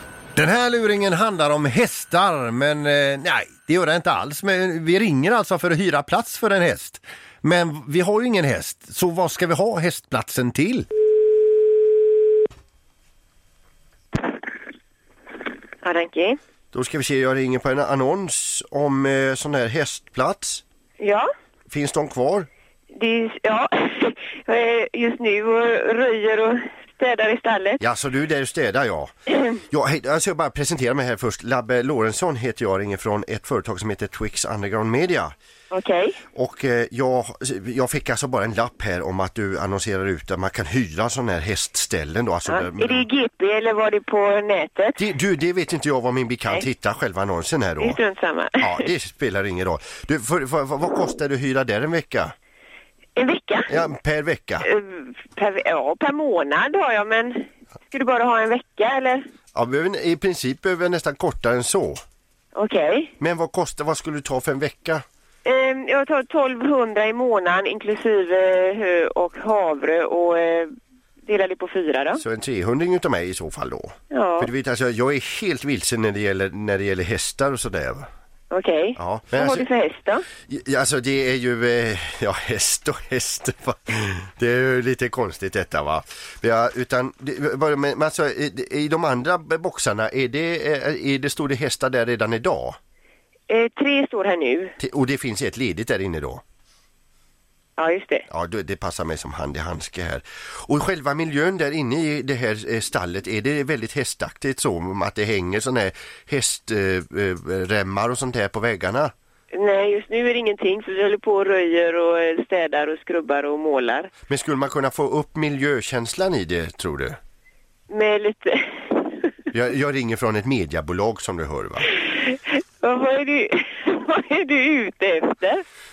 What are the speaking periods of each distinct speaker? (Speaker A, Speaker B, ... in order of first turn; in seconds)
Speaker A: 0.3-10.9, 16.7-20.6, 21.7-22.5, 27.8-35.3, 36.3-43.0, 45.0-48.0, 48.6-52.3, 53.7-54.6, 59.5-62.0, 63.2-65.0, 72.2-78.1, 79.0-79.7, 80.5-92.8, 94.8-96.4, 98.3-109.1, 114.3-117.2, 119.5-121.9
Speaker B: 15.8-16.4, 21.0-21.3, 22.9-27.8, 35.7-36.2, 42.5-45.0, 47.8-48.9, 53.1-53.7, 54.6-59.2, 62.5-63.1, 65.4-70.7, 71.2-72.2, 74.1-74.5, 78.5-80.2, 93.5-94.7, 97.8-98.2, 109.5-114.1, 117.9-119.3, 122.2-125.6